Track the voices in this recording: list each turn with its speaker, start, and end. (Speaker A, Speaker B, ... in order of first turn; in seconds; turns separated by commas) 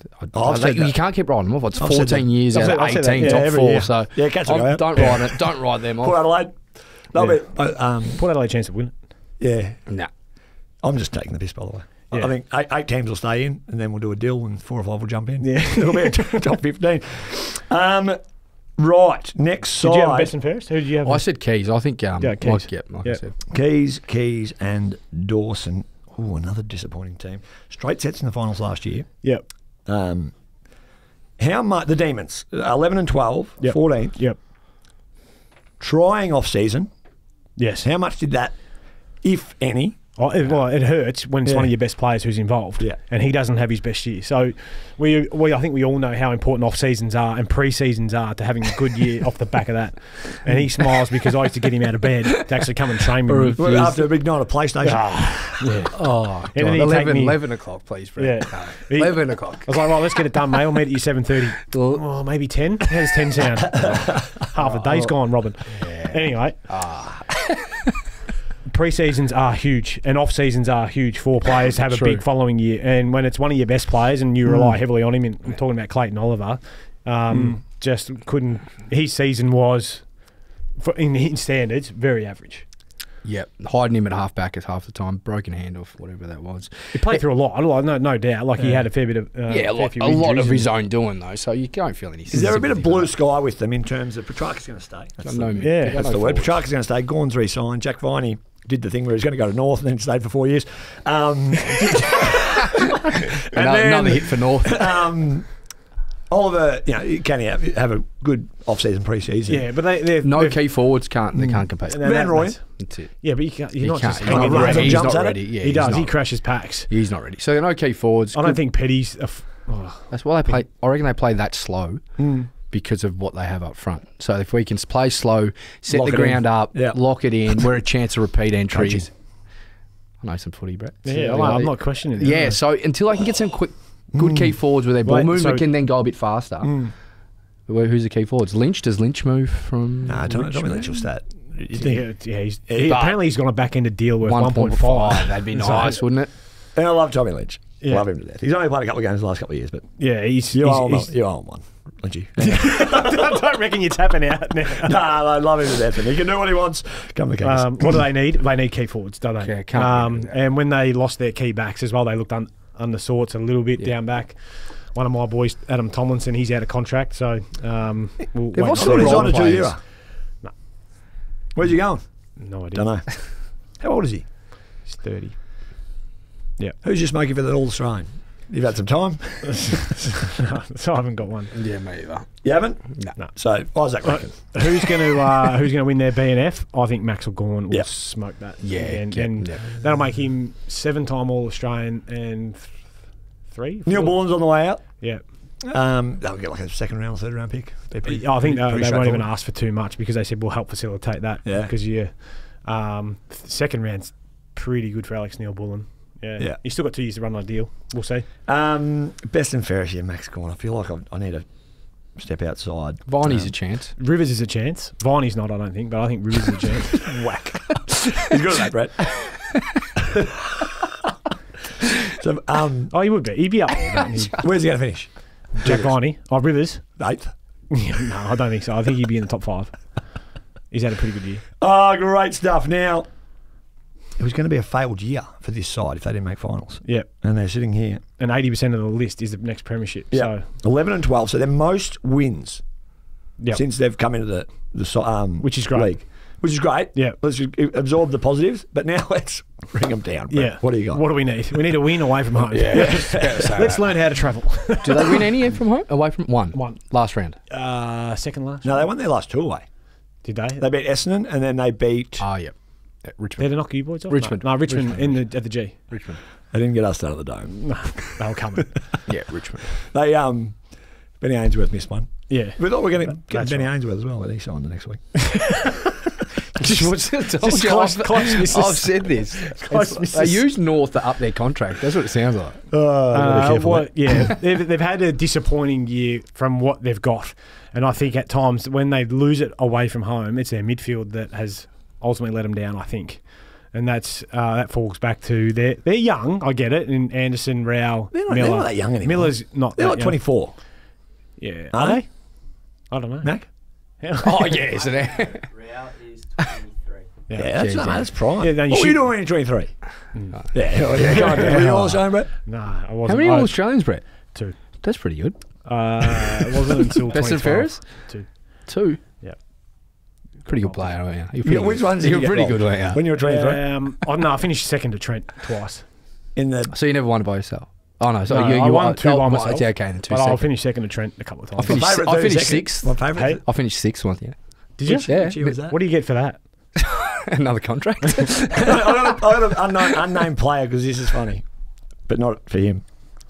Speaker A: 0.2-6.2, Speaker B: 0.3-1.0, Speaker B: 1.7-8.2, Speaker C: 2.5-3.8, Speaker C: 7.2-9.0, Speaker B: 9.4-9.9, Speaker B: 10.8-20.3, Speaker C: 15.4-16.5, Speaker C: 19.8-23.2, Speaker A: 21.0-23.3, Speaker B: 23.5-30.4, Speaker B: 31.4-34.2, Speaker C: 33.6-34.4, Speaker B: 35.8-36.9, Speaker C: 37.5-37.9, Speaker B: 37.8-40.7, Speaker C: 40.1-66.7, Speaker B: 41.4-41.8, Speaker B: 53.3-55.8, Speaker A: 55.9-60.0, Speaker A: 61.7-62.2, Speaker A: 63.8-67.9, Speaker B: 63.8-64.2, Speaker C: 68.6-82.6, Speaker A: 71.8-72.2, Speaker A: 83.2-87.2, Speaker C: 86.9-90.7, Speaker B: 88.6-88.8, Speaker A: 89.5-93.1, Speaker B: 92.3-105.7, Speaker A: 95.2-96.6, Speaker C: 95.6-96.0, Speaker A: 103.5-105.0, Speaker B: 106.3-109.7, Speaker C: 109.5-111.1, Speaker A: 110.2-118.6, Speaker B: 111.4-112.6, Speaker C: 111.8-116.9, Speaker B: 114.2-115.5, Speaker C: 118.3-120.6, Speaker A: 120.1-129.3, Speaker B: 122.2-122.5, Speaker B: 125.9-127.7, Speaker B: 128.7-129.0, Speaker A: 130.2-136.9, Speaker C: 131.0-132.6, Speaker B: 134.2-134.5, Speaker C: 135.0-135.7, Speaker B: 136.6-136.9, Speaker A: 137.7-140.8, Speaker B: 140.0-142.1, Speaker C: 141.7-146.0, Speaker B: 142.7-143.0, Speaker A: 142.8-143.3, Speaker A: 144.2-146.3, Speaker B: 146.7-153.3, Speaker C: 150.0-151.1, Speaker C: 152.4-155.0, Speaker B: 154.8-158.0, Speaker C: 157.4-169.7, Speaker A: 159.4-160.3, Speaker A: 168.5-169.8, Speaker B: 168.7-169.8, Speaker B: 171.5-174.2, Speaker C: 172.3-173.1, Speaker C: 174.8-175.9, Speaker B: 176.8-180.1, Speaker C: 179.5-181.5, Speaker A: 181.5-183.2, Speaker B: 182.4-185.1, Speaker C: 183.2-195.2, Speaker A: 188.6-189.7, Speaker B: 193.8-199.3, Speaker C: 198.0-208.3, Speaker B: 201.4-201.7, Speaker B: 208.4-213.5, Speaker A: 213.1-213.9, Speaker C: 214.0-217.9, Speaker B: 218.2-219.4, Speaker B: 222.1-222.9, Speaker C: 222.9-231.4, Speaker B: 224.4-225.9, Speaker B: 227.0-227.3, Speaker B: 231.6-233.1, Speaker B: 234.2-238.0, Speaker C: 236.8-237.2, Speaker C: 238.2-240.5, Speaker B: 240.1-242.7, Speaker B: 243.5-251.8, Speaker C: 245.4-247.2, Speaker C: 250.3-255.3, Speaker A: 252.5-257.4, Speaker B: 252.7-253.6, Speaker C: 256.5-256.9, Speaker C: 257.5-258.9, Speaker B: 258.6-259.7, Speaker C: 260.2-260.6, Speaker B: 260.6-262.3, Speaker A: 262.2-266.2, Speaker C: 263.4-266.1, Speaker B: 266.5-268.2, Speaker C: 267.6-269.0, Speaker A: 269.1-269.7, Speaker B: 269.8-275.7, Speaker C: 272.3-273.7, Speaker C: 275.3-275.7, Speaker A: 276.6-282.7, Speaker C: 276.6-280.5, Speaker B: 282.7-283.9, Speaker C: 283.1-300.8, Speaker B: 298.1-300.8, Speaker C: 301.4-304.6, Speaker B: 301.7-302.0, Speaker A: 304.2-305.8, Speaker A: 306.4-306.6, Speaker C: 307.3-309.2, Speaker B: 307.3-312.3, Speaker A: 307.5-308.1, Speaker C: 310.1-314.6, Speaker A: 310.8-311.9, Speaker A: 313.1-316.3, Speaker C: 315.6-319.4, Speaker A: 317.1-319.0, Speaker C: 319.9-320.9, Speaker A: 320.4-323.2, Speaker B: 321.4-323.6, Speaker C: 323.2-325.9, Speaker B: 326.3-326.7, Speaker A: 326.7-330.5, Speaker C: 328.3-331.8, Speaker A: 331.5-335.6, Speaker B: 331.7-333.4, Speaker C: 333.1-333.4, Speaker C: 334.8-336.4, Speaker B: 334.9-335.8, Speaker A: 336.8-339.3, Speaker B: 338.6-341.4, Speaker B: 342.0-342.9